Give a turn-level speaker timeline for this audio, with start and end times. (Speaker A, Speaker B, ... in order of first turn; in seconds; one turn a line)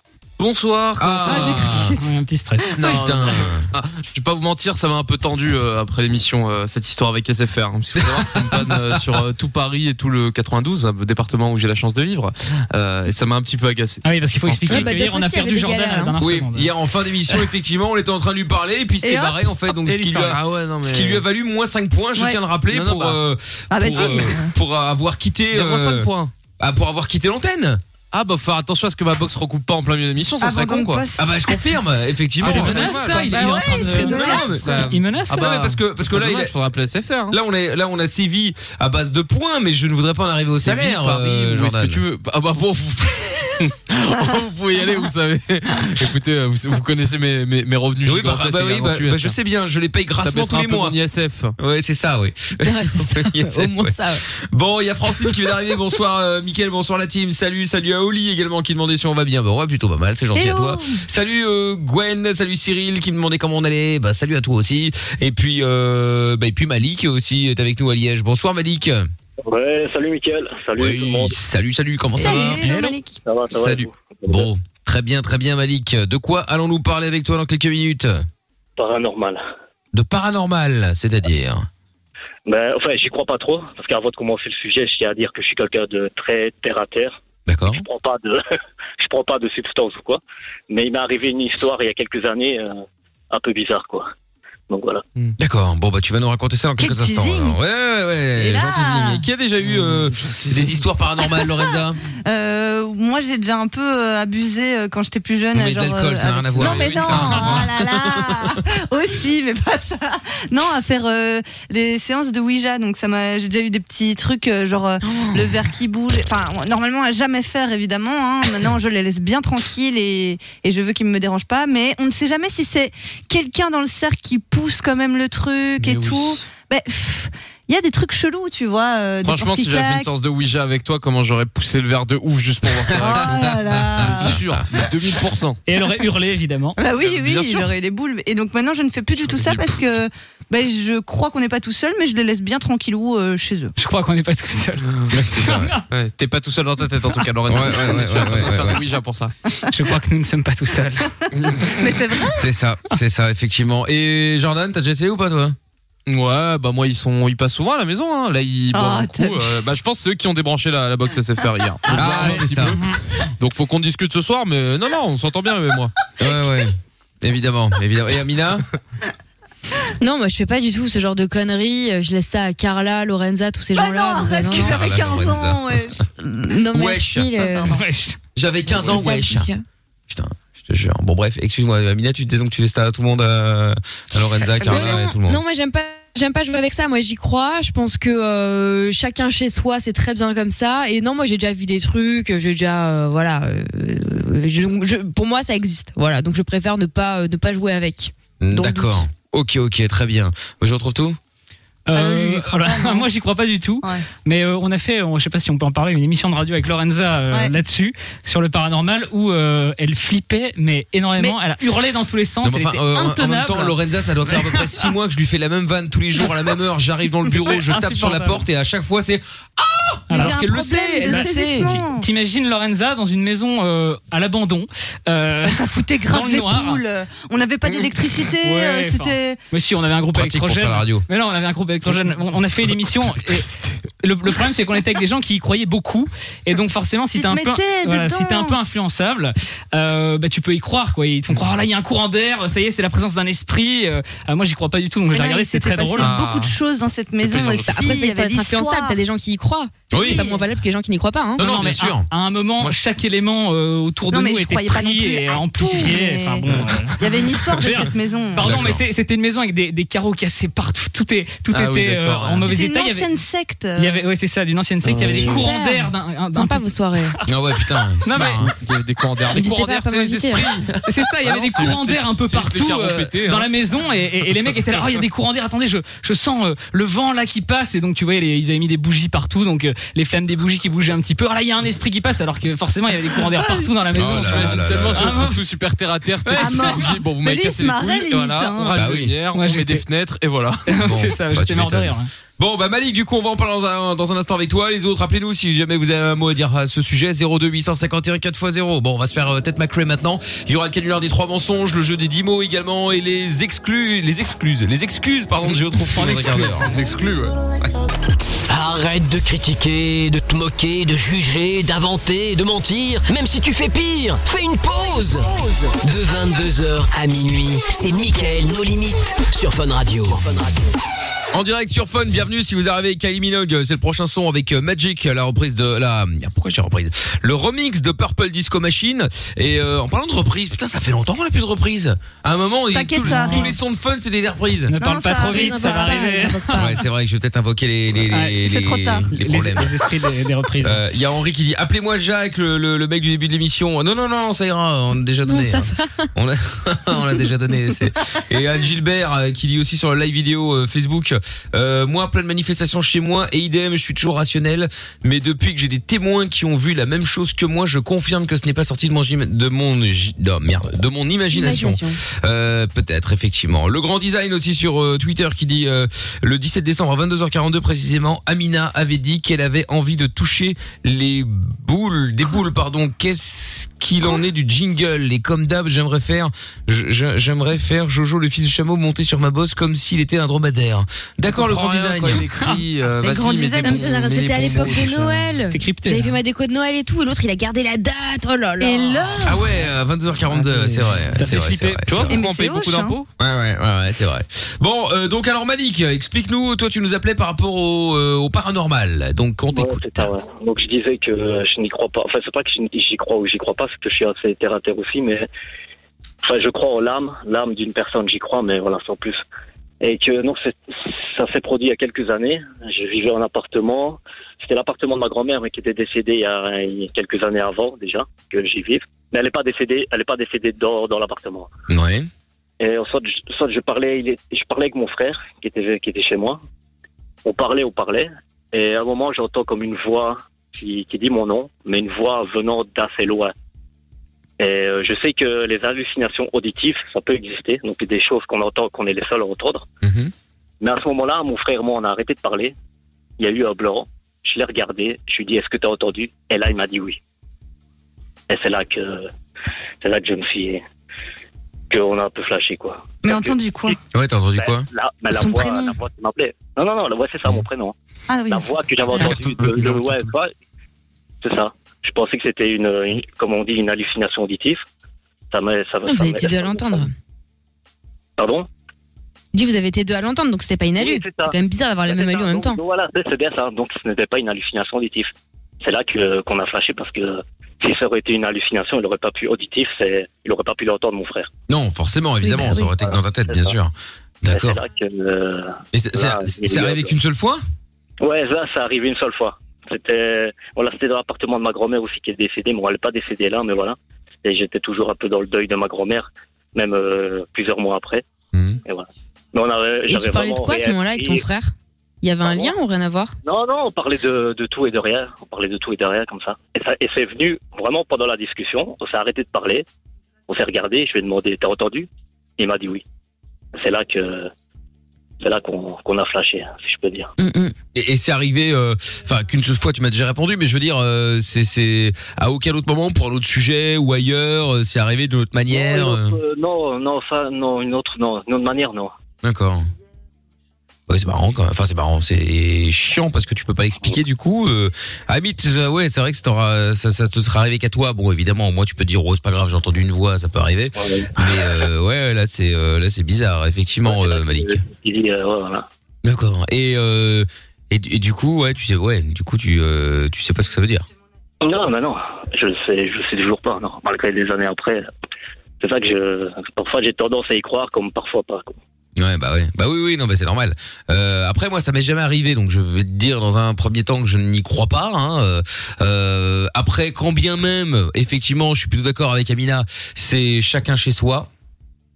Speaker A: 0.4-1.8
Speaker B: 1.0-1.9
Speaker C: 1.3-1.8
Speaker D: 1.7-2.7
Speaker A: 2.8-14.9
Speaker B: 2.8-3.7
Speaker B: 8.0-9.2
Speaker D: 14.0-16.7
Speaker E: 14.7-16.1
Speaker B: 16.2-27.8
Speaker C: 19.0-19.4
Speaker D: 19.8-20.4
Speaker A: 20.2-21.2
Speaker C: 22.1-22.4
Speaker A: 22.7-23.2
Speaker C: 23.7-24.5
Speaker A: 25.5-26.3
Speaker A: 28.1-31.1
Speaker C: 30.4-31.8
Speaker B: 31.1-33.0
Speaker A: 32.4-34.0
Speaker D: 32.4-35.8
Speaker C: 32.9-34.8
Speaker B: 34.1-34.6
Speaker A: 34.6-37.4
Speaker B: 35.3-36.5
Speaker B: 37.3-42.0
Speaker A: 40.6-49.4
Speaker B: 48.0-51.0
Speaker A: 50.2-51.5
Speaker B: 51.6-69.1
Speaker E: 52.6-54.2
Speaker C: 60.3-61.0
Speaker F: 69.4-71.4
Speaker B: 70.8-72.6
Speaker C: 72.1-73.2
Speaker D: 72.6-73.0
Speaker F: 73.2-74.5
Speaker A: 73.5-73.9
Speaker B: 74.3-78.2
Speaker F: 78.8-79.4
Speaker B: 79.9-81.7
Speaker F: 82.5-88.4
Speaker B: 87.5-87.8
Speaker F: 89.0-92.8
Speaker F: 93.3-94.1
Speaker F: 94.7-95.0
Speaker B: 95.4-102.0
Speaker C: 96.8-97.6
Speaker C: 98.3-99.2
Speaker A: 99.6-100.8
Speaker C: 101.3-130.1
Speaker B: 105.5-108.5
Speaker D: 107.1-107.6
Speaker E: 115.0-115.6
Speaker A: 125.8-126.4
Speaker A: 129.2-135.6
Speaker B: 132.9-133.2
Speaker C: 132.9-134.4
Speaker D: 135.7-136.8
Speaker C: 136.8-143.7
Speaker A: 137.0-137.7
Speaker A: 139.2-139.9
Speaker D: 143.8-144.8
Speaker A: 144.8-145.2
Speaker B: 145.1-145.7
Speaker D: 145.3-145.8
Speaker A: 145.9-149.3
Speaker B: 147.5-148.8
Speaker D: 149.7-151.1
Speaker C: 151.6-152.5
Speaker B: 152.3-155.6
Speaker A: 156.1-165.9
Speaker C: 158.7-159.6
Speaker B: 161.9-162.8
Speaker B: 166.2-168.6
Speaker E: 170.0-175.2
Speaker C: 173.7-176.6
Speaker B: 174.6-175.6
Speaker E: 176.5-177.8
Speaker B: 176.7-177.3
Speaker C: 177.4-177.7
Speaker D: 177.7-178.2
Speaker B: 178.3-179.5
Speaker E: 178.7-179.6
Speaker B: 180.1-185.4
Speaker E: 184.6-199.0
Speaker C: 184.6-184.9
Speaker B: 198.4-201.2
Speaker D: 201.9-213.8
Speaker C: 201.9-203.1
Speaker B: 212.4-221.7
Speaker D: 214.3-214.8
Speaker D: 217.3-218.4
Speaker D: 220.1-220.4
Speaker C: 220.1-222.1
Speaker D: 221.0-226.8
Speaker C: 225.4-229.4
Speaker D: 228.4-246.2
Speaker B: 230.1-231.0
Speaker C: 237.1-238.6
Speaker C: 245.1-249.0
Speaker A: 246.0-246.6
Speaker A: 247.2-247.8
Speaker E: 247.6-251.5
Speaker B: 249.9-250.3
Speaker C: 250.0-250.4
Speaker B: 251.4-252.1
Speaker D: 251.4-257.0
Speaker C: 254.1-258.6
Speaker D: 257.5-263.1
Speaker B: 258.4-258.8
Speaker A: 261.5-262.5
Speaker C: 262.5-264.0
Speaker D: 263.8-266.6
Speaker A: 264.8-265.4
Speaker E: 265.1-267.1
Speaker B: 267.3-268.5
Speaker D: 268.0-268.4
Speaker A: 268.4-273.5
Speaker E: 269.3-270.5
Speaker D: 270.8-285.4
Speaker A: 283.9-290.8
Speaker B: 283.9-285.2
Speaker D: 286.3-286.8
Speaker C: 286.3-288.9
Speaker B: 288.7-289.2
Speaker D: 289.3-289.8
Speaker D: 290.7-292.1
Speaker B: 290.8-306.8
Speaker A: 305.8-307.4
Speaker G: 308.5-320.7
Speaker B: 321.3-334.7
Speaker C: 332.7-333.5
Speaker D: 333.1-333.5
Speaker D: 334.7-336.8
Speaker C: 334.8-336.0
Speaker E: 335.2-336.8
Speaker B: 336.5-339.8
Speaker D: 338.1-338.4
Speaker C: 338.4-339.1
Speaker D: 339.1-340.8
Speaker B: 340.6-382.2
Speaker E: 345.3-346.1
Speaker E: 361.3-362.0
Speaker A: 381.3-385.3
Speaker D: 382.3-382.6
Speaker C: 383.0-384.9
Speaker E: 383.6-389.2
Speaker D: 385.5-386.2
Speaker C: 388.6-389.5
Speaker B: 389.2-392.2
Speaker A: 390.3-390.9
Speaker D: 391.1-391.8
Speaker A: 391.9-393.1
Speaker C: 392.1-392.9
Speaker B: 393.2-400.1
Speaker F: 399.5-405.3
Speaker F: 406.2-409.2
Speaker F: 409.8-421.5
Speaker B: 421.7-422.1
Speaker F: 422.6-426.4
Speaker F: 427.2-433.3
Speaker F: 434.4-439.6
Speaker B: 439.8-440.1
Speaker F: 440.6-442.5
Speaker F: 443.2-447.0
Speaker F: 448.3-449.1
Speaker F: 449.8-450.6
Speaker F: 451.7-453.7
Speaker C: 453.0-453.8
Speaker B: 453.9-454.6
Speaker F: 454.4-457.7
Speaker C: 455.1-455.7
Speaker C: 458.1-458.5
Speaker F: 458.3-460.3
Speaker A: 459.1-459.8
Speaker F: 461.2-464.6
Speaker F: 465.3-466.9
Speaker E: 465.9-466.9
Speaker F: 468.2-468.5
Speaker E: 469.3-472.6
Speaker F: 470.8-471.3
Speaker F: 471.9-475.1
Speaker F: 475.6-481.3
Speaker B: 481.5-484.6
Speaker E: 482.2-482.7
Speaker F: 482.8-483.5
Speaker F: 484.3-486.9
Speaker B: 485.7-487.4
Speaker F: 488.0-498.0
Speaker B: 498.3-498.6
Speaker F: 498.6-501.2
Speaker E: 499.9-503.1
Speaker F: 502.2-502.5
Speaker F: 503.2-509.6
Speaker F: 510.3-512.8
Speaker F: 513.5-514.3
Speaker F: 515.2-517.1
Speaker E: 517.2-517.5
Speaker B: 517.7-526.2
Speaker F: 525.5-528.9
Speaker B: 529.2-529.6
Speaker B: 530.9-544.6
Speaker F: 540.8-541.7
Speaker F: 543.8-545.7
Speaker B: 546.0-550.8
Speaker F: 551.4-554.9
Speaker F: 555.6-558.6
Speaker B: 559.0-571.3